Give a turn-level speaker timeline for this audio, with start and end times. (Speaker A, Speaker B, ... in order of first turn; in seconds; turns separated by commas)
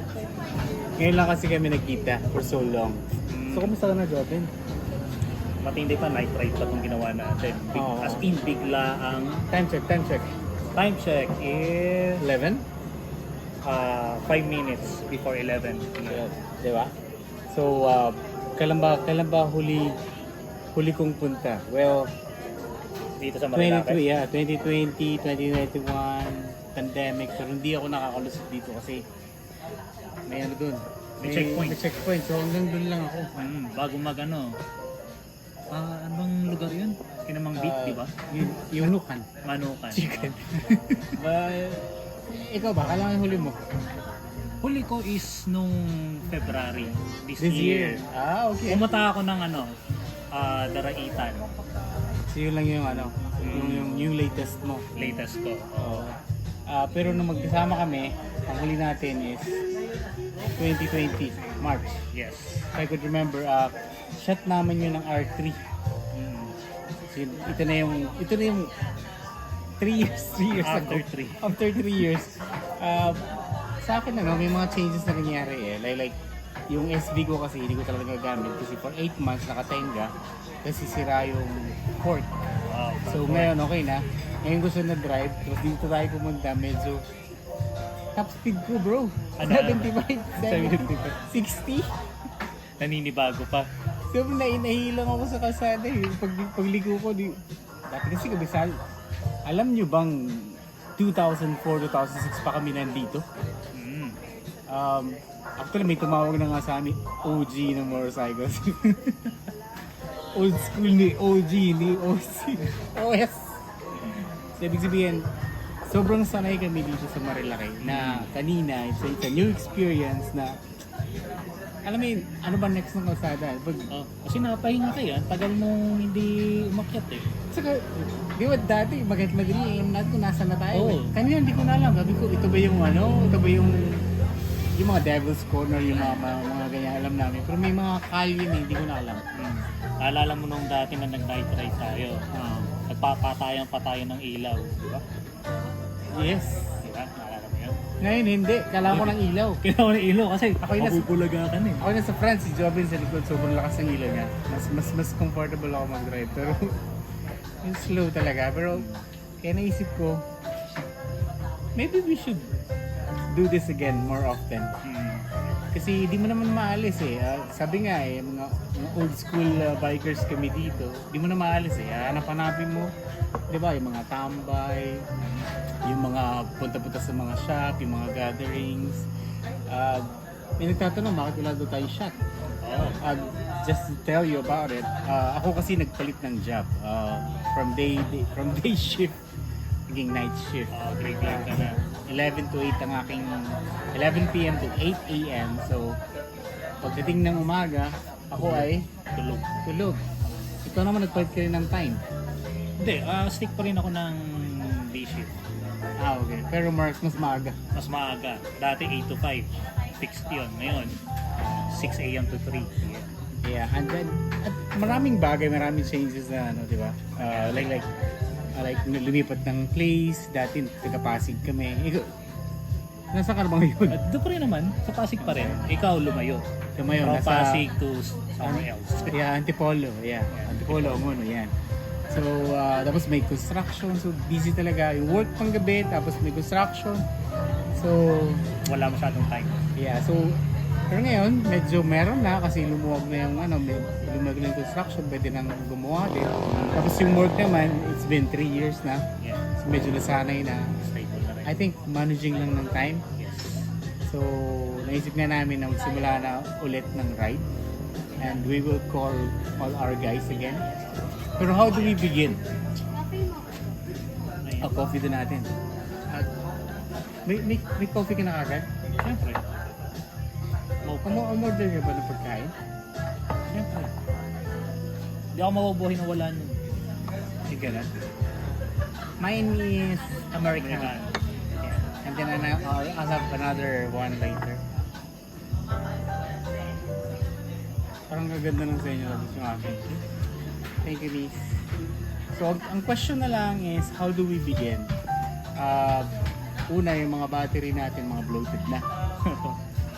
Speaker A: 1.0-4.5, Speaker B: 3.3-3.7, Speaker B: 5.6-9.4, Speaker A: 7.7-8.2, Speaker A: 9.5-10.3, Speaker B: 10.8-12.2, Speaker A: 12.2-12.6, Speaker B: 13.6-16.2, Speaker A: 16.1-16.9, Speaker A: 17.5-19.9, Speaker A: 20.7-22.1, Speaker B: 23.2-24.0, Speaker A: 23.5-29.0, Speaker A: 30.3-33.3, Speaker B: 31.2-31.8, Speaker B: 33.4-34.5, Speaker B: 35.7-38.1, Speaker A: 37.5-39.2, Speaker B: 39.4-40.3, Speaker A: 39.9-41.2, Speaker B: 41.2-41.8, Speaker A: 42.3-43.6, Speaker B: 44.6-48.0, Speaker A: 47.4-48.8, Speaker B: 48.6-49.7, Speaker B: 50.3-51.5, Speaker A: 52.3-54.9, Speaker B: 53.4-54.1, Speaker B: 54.9-56.1, Speaker A: 55.8-56.1, Speaker A: 56.7-59.6, Speaker A: 60.5-62.0, Speaker B: 62.1-62.7, Speaker A: 62.7-65.6, Speaker B: 66.1-66.5, Speaker A: 67.1-68.7, Speaker A: 69.8-73.2, Speaker B: 70.5-72.1, Speaker A: 73.8-76.2, Speaker A: 76.7-80.1, Speaker A: 80.6-82.3, Speaker B: 82.7-83.6, Speaker A: 83.1-87.0, Speaker A: 88.1-91.9, Speaker B: 89.4-91.0, Speaker B: 92.8-93.7, Speaker A: 94.1-98.7, Speaker A: 99.5-103.2, Speaker B: 103.7-104.2, Speaker A: 104.7-109.2, Speaker A: 110.3-115.2, Speaker A: 115.9-120.6, Speaker B: 117.8-118.3, Speaker A: 121.8-123.9, Speaker B: 123.9-127.2, Speaker A: 127.5-134.0, Speaker B: 130.7-131.1, Speaker A: 134.8-139.2, Speaker B: 135.8-136.2, Speaker B: 139.3-142.2, Speaker A: 142.3-142.7, Speaker B: 142.9-145.0, Speaker A: 146.1-146.8, Speaker B: 146.8-147.8, Speaker A: 148.0-149.6, Speaker B: 148.8-151.8, Speaker A: 150.6-151.1, Speaker A: 151.8-156.7, Speaker A: 157.6-158.8, Speaker B: 158.7-159.0, Speaker A: 159.4-160.2, Speaker A: 161.8-162.5, Speaker A: 163.3-164.7, Speaker B: 164.8-165.2, Speaker A: 165.7-172.9, Speaker A: 173.5-175.0, Speaker A: 175.9-179.0, Speaker A: 179.7-180.1, Speaker A: 180.6-182.1, Speaker B: 182.6-183.0, Speaker A: 183.0-189.2, Speaker A: 189.9-190.7, Speaker B: 190.7-191.8, Speaker A: 191.2-195.9, Speaker A: 196.8-198.9, Speaker B: 198.4-199.5, Speaker A: 199.6-200.0, Speaker A: 200.6-202.0, Speaker B: 202.8-205.3, Speaker A: 206.0-207.5, Speaker B: 207.7-211.0, Speaker B: 211.5-213.1, Speaker A: 213.4-217.9, Speaker B: 217.2-217.7, Speaker A: 218.6-222.1, Speaker A: 223.1-224.0, Speaker B: 223.9-226.4, Speaker A: 225.2-225.7, Speaker A: 226.8-227.7, Speaker B: 227.0-229.2, Speaker A: 228.4-231.5, Speaker B: 230.3-231.1, Speaker A: 232.1-237.0, Speaker A: 237.7-238.4, Speaker B: 238.6-239.6, Speaker A: 239.8-249.1, Speaker B: 246.5-246.9, Speaker A: 249.6-250.7, Speaker B: 250.8-251.5, Speaker A: 251.4-253.0, Speaker B: 253.2-253.7, Speaker A: 254.1-257.4, Speaker A: 258.2-260.6, Speaker A: 261.4-262.4, Speaker B: 261.6-262.0, Speaker B: 264.4-264.7, Speaker A: 264.6-265.5, Speaker A: 267.2-268.7, Speaker B: 269.0-269.4, Speaker B: 270.9-271.2, Speaker A: 271.0-272.5, Speaker B: 273.5-273.9, Speaker B: 275.3-276.6, Speaker A: 277.5-277.9, Speaker A: 279.2-280.9, Speaker B: 280.5-281.8, Speaker A: 282.0-284.6, Speaker A: 288.1-290.0, Speaker A: 290.8-291.4, Speaker A: 292.3-294.9, Speaker A: 295.6-296.1, Speaker A: 296.7-298.8, Speaker B: 299.2-299.6